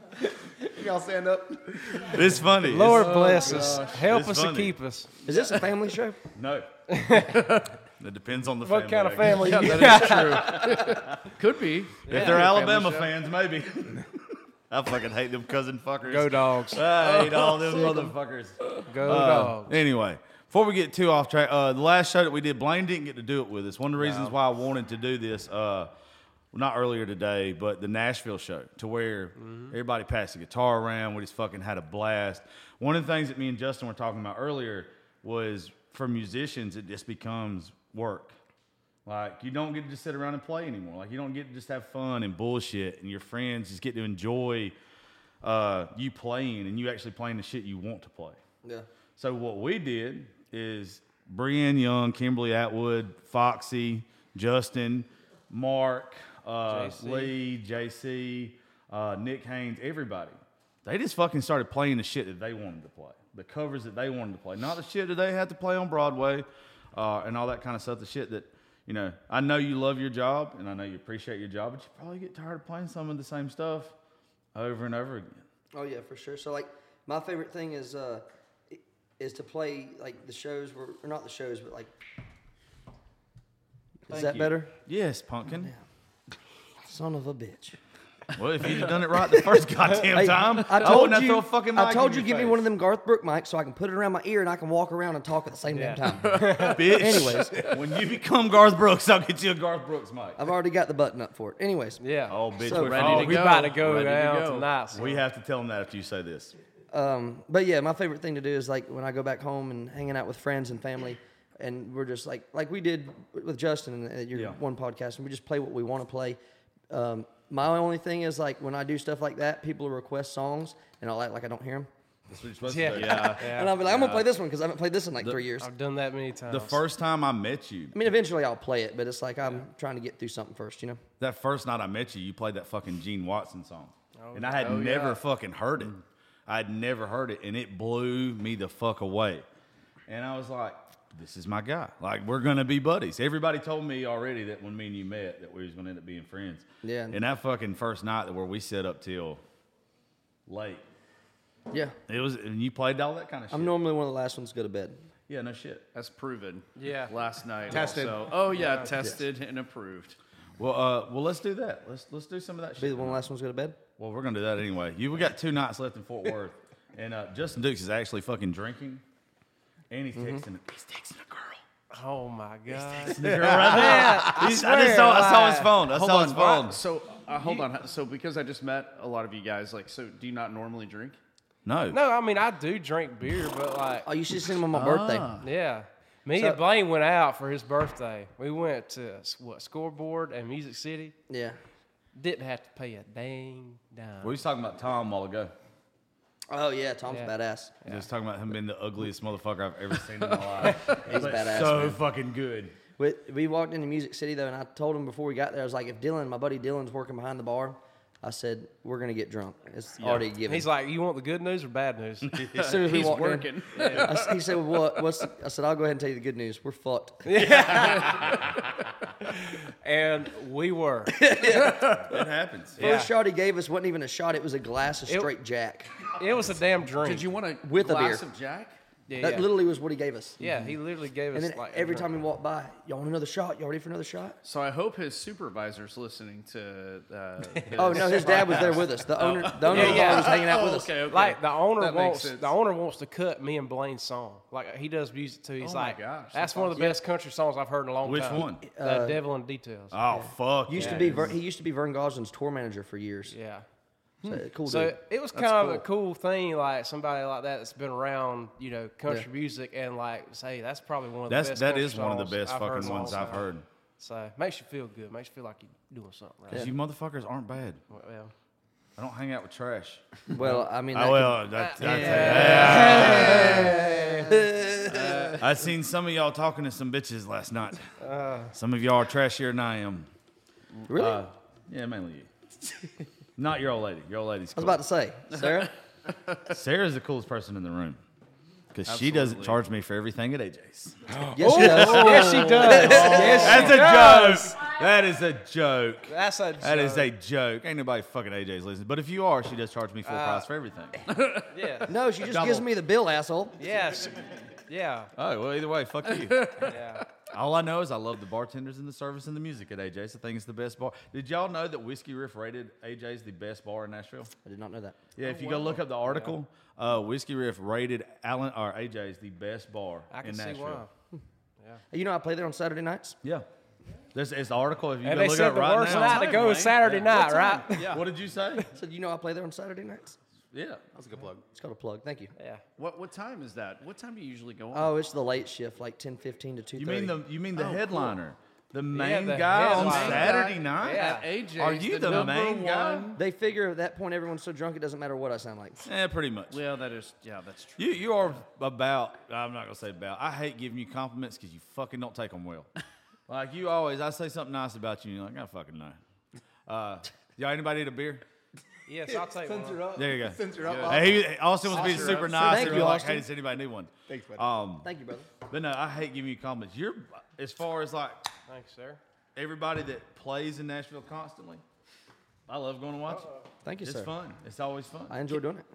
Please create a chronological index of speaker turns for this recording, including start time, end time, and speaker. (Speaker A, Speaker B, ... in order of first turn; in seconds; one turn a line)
Speaker A: 0.6-4.0
Speaker B: 2.0-4.8
Speaker C: 2.6-5.1
Speaker D: 2.8-3.8
Speaker E: 5.2-6.2
Speaker D: 5.2-5.6
Speaker B: 6.3-6.7
Speaker C: 6.9-7.4
Speaker D: 7.1-7.7
Speaker B: 8.0-11.2
Speaker C: 8.6-10.8
Speaker D: 9.2-13.1
Speaker B: 12.1-25.9
Speaker C: 12.1-12.5
Speaker C: 16.0-16.9
Speaker D: 16.7-18.1
Speaker C: 18.9-19.8
Speaker B: 26.5-38.4
Speaker C: 29.4-29.7
Speaker B: 39.0-44.7
Speaker B: 45.4-48.4
Speaker B: 49.2-73.9
Speaker C: 56.7-57.3
Speaker B: 74.5-75.4
Speaker E: 75.7-81.9
Speaker E: 84.1-84.7
Speaker B: 84.1-85.7
Speaker E: 86.8-87.8
Speaker B: 88.3-92.6
Speaker E: 90.1-97.8
Speaker C: 95.7-96.8
Speaker D: 96.2-96.7
Speaker B: 96.6-100.4
Speaker E: 100.4-102.0
Speaker C: 102.0-102.4
Speaker B: 102.3-103.6
Speaker E: 102.5-103.1
Speaker D: 102.8-104.7
Speaker C: 102.9-105.2
Speaker B: 104.9-106.5
Speaker E: 106.9-116.4
Speaker B: 114.3-114.6
Speaker E: 116.9-121.9
Speaker B: 122.3-123.4
Speaker C: 122.7-123.7
Speaker D: 122.9-124.2
Speaker E: 123.3-125.7
Speaker C: 125.6-126.8
Speaker B: 126.5-127.9
Speaker E: 127.9-131.0
Speaker B: 131.2-139.4
Speaker C: 134.2-134.8
Speaker D: 134.6-135.2
Speaker B: 140.1-149.4
Speaker E: 146.8-147.2
Speaker B: 150.5-150.8
Speaker E: 151.7-151.9
Speaker B: 152.1-153.7
Speaker E: 153.5-155.0
Speaker B: 155.3-155.8
Speaker D: 155.9-160.2
Speaker C: 156.8-157.1
Speaker A: 157.7-158.4
Speaker C: 158.5-158.9
Speaker B: 160.6-163.2
Speaker E: 162.8-163.8
Speaker B: 164.0-169.0
Speaker B: 169.9-171.6
Speaker E: 170.1-170.4
Speaker C: 171.9-175.8
Speaker B: 172.7-176.8
Speaker D: 175.9-181.2
Speaker C: 177.4-177.7
Speaker B: 181.6-182.0
Speaker C: 181.9-184.1
Speaker E: 184.1-185.3
Speaker D: 184.7-185.5
Speaker C: 185.4-191.1
Speaker E: 186.3-186.6
Speaker E: 191.3-191.6
Speaker C: 192.1-194.4
Speaker B: 194.2-195.5
Speaker E: 196.5-197.7
Speaker C: 197.1-198.1
Speaker B: 197.8-202.7
Speaker D: 200.2-201.3
Speaker E: 201.0-202.0
Speaker E: 203.0-210.7
Speaker D: 210.0-210.2
Speaker C: 210.5-212.4
Speaker D: 212.4-214.4
Speaker E: 212.5-218.0
Speaker C: 213.7-214.1
Speaker C: 217.2-218.3
Speaker D: 217.5-218.6
Speaker C: 219.2-221.2
Speaker E: 221.2-222.0
Speaker D: 221.4-222.1
Speaker B: 222.1-222.8
Speaker C: 222.8-223.1
Speaker E: 222.8-225.9
Speaker C: 226.2-227.3
Speaker D: 227.0-228.8
Speaker E: 227.6-228.2
Speaker C: 229.1-229.5
Speaker E: 229.2-230.4
Speaker C: 230.4-232.1
Speaker D: 230.4-230.7
Speaker E: 231.3-234.4
Speaker D: 234.4-242.5
Speaker E: 237.7-240.9
Speaker C: 239.7-240.6
Speaker C: 241.1-250.0
Speaker D: 245.6-246.9
Speaker B: 248.0-248.6
Speaker E: 248.6-249.2
Speaker B: 249.9-251.3
Speaker E: 250.1-253.3
Speaker C: 250.8-251.3
Speaker C: 253.3-253.7
Speaker D: 254.2-254.5
Speaker E: 254.2-255.0
Speaker C: 254.7-263.5
Speaker D: 255.3-255.8
Speaker B: 261.3-263.6
Speaker C: 264.0-266.7
Speaker B: 266.5-267.8
Speaker C: 267.9-268.3
Speaker B: 269.0-270.1
Speaker E: 270.3-275.0
Speaker C: 270.4-270.6
Speaker B: 270.9-273.7
Speaker C: 271.5-274.4
Speaker D: 272.6-273.6
Speaker D: 274.8-275.4
Speaker B: 275.4-277.9
Speaker C: 278.0-278.5
Speaker B: 278.5-280.1
Speaker E: 280.9-281.2
Speaker B: 280.9-282.3
Speaker B: 283.4-284.8
Speaker E: 284.6-285.7
Speaker D: 285.3-286.4
Speaker B: 286.5-288.0
Speaker B: 288.7-301.0
Speaker D: 288.9-289.6
Speaker E: 291.3-293.9
Speaker C: 291.4-294.6
Speaker C: 296.1-297.1
Speaker C: 300.0-300.5
Speaker D: 301.1-301.9
Speaker C: 301.5-301.9
Speaker E: 301.9-303.6
Speaker B: 302.2-302.6
Speaker C: 303.6-305.1
Speaker B: 305.1-306.6
Speaker D: 306.0-307.1
Speaker C: 306.6-307.0
Speaker B: 307.3-314.3
Speaker E: 314.4-315.0
Speaker B: 315.1-320.9
Speaker D: 315.4-315.7
Speaker C: 315.5-316.3
Speaker C: 320.1-320.9
Speaker E: 321.9-323.2
Speaker B: 324.1-326.6
Speaker C: 325.0-328.0
Speaker D: 325.8-328.0
Speaker B: 327.7-328.7
Speaker E: 328.7-330.2
Speaker B: 330.5-330.8
Speaker A: 330.9-331.4
Speaker E: 331.5-332.3
Speaker C: 332.4-332.6
Speaker D: 332.8-334.9
Speaker E: 334.7-337.2
Speaker B: 336.8-343.1
Speaker D: 337.5-338.1
Speaker C: 338.9-341.3
Speaker D: 339.6-343.2
Speaker E: 343.1-345.9
Speaker B: 345.8-346.6
Speaker D: 346.5-348.3
Speaker B: 347.8-352.7
Speaker B: 353.3-356.0
Speaker B: 356.7-358.2
Speaker C: 358.9-359.9
Speaker A: 359.1-361.3
Speaker B: 359.9-364.9
Speaker D: 360.6-362.5
Speaker E: 362.3-363.2
Speaker A: 364.1-364.5
Speaker E: 364.8-365.3
Speaker B: 365.5-368.2
Speaker C: 368.5-369.0
Speaker B: 369.3-371.6
Speaker B: 372.5-373.3
Speaker E: 373.6-374.1
Speaker B: 373.8-375.2
Speaker E: 375.1-375.6